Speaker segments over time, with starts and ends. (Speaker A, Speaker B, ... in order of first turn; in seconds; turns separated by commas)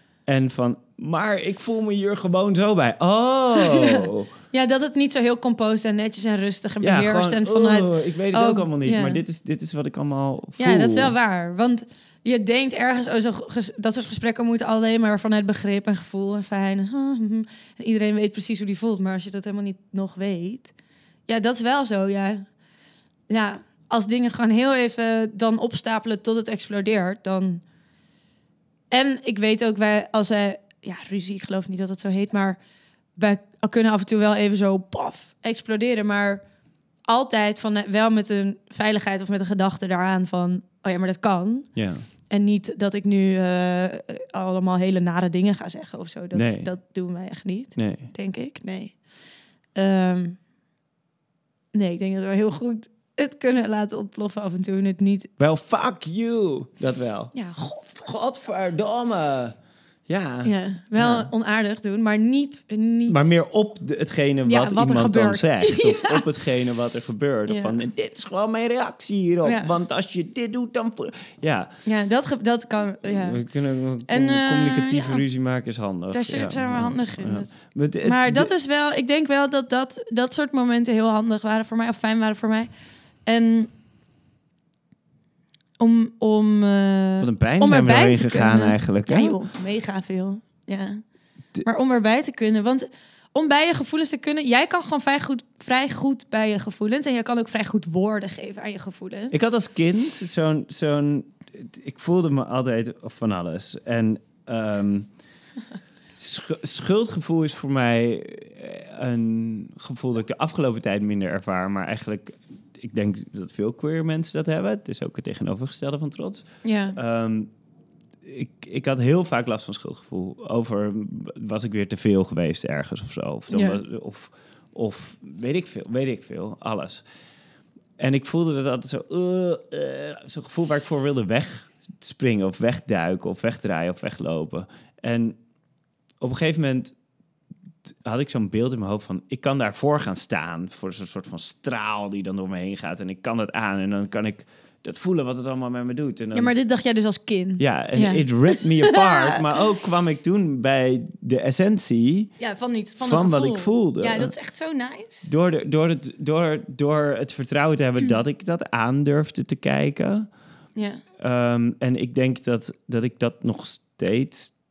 Speaker A: 0.3-4.3, Speaker B: 3.6-9.2, Speaker A: 6.8-11.1, Speaker B: 10.6-20.7, Speaker B: 21.3-22.5, Speaker B: 23.3-27.6, Speaker B: 28.9-32.6, Speaker B: 33.1-36.4, Speaker B: 37.1-41.8, Speaker A: 41.7-42.0, Speaker B: 42.3-49.0, Speaker A: 46.3-46.7, Speaker A: 47.8-48.1, Speaker B: 49.7-50.4, Speaker B: 51.7-55.3, Speaker A: 55.4-59.5, Speaker B: 57.3-57.9, Speaker A: 60.1-61.3, Speaker B: 60.4-63.3, Speaker A: 63.1-71.8, Speaker B: 64.5-66.2, Speaker B: 67.5-67.8, Speaker B: 69.4-69.7, Speaker B: 71.8-73.4, Speaker A: 73.0-78.5, Speaker B: 74.1-75.2, Speaker B: 76.1-82.7, Speaker B: 83.2-83.7, Speaker B: 85.8-91.0, Speaker A: 87.2-89.4, Speaker B: 91.6-99.3, Speaker A: 99.3-105.1, Speaker A: 106.2-117.5, Speaker B: 116.6-117.0, Speaker A: 118.2-127.0, Speaker B: 123.5-123.8, Speaker A: 128.0-135.4, Speaker A: 136.2-136.9, Speaker A: 137.9-146.5, Speaker B: 146.3-149.4, Speaker A: 147.6-152.3, Speaker B: 152.4-155.2, Speaker A: 153.0-154.3, Speaker A: 155.2-160.3, Speaker B: 160.7-161.0, Speaker A: 161.2-164.5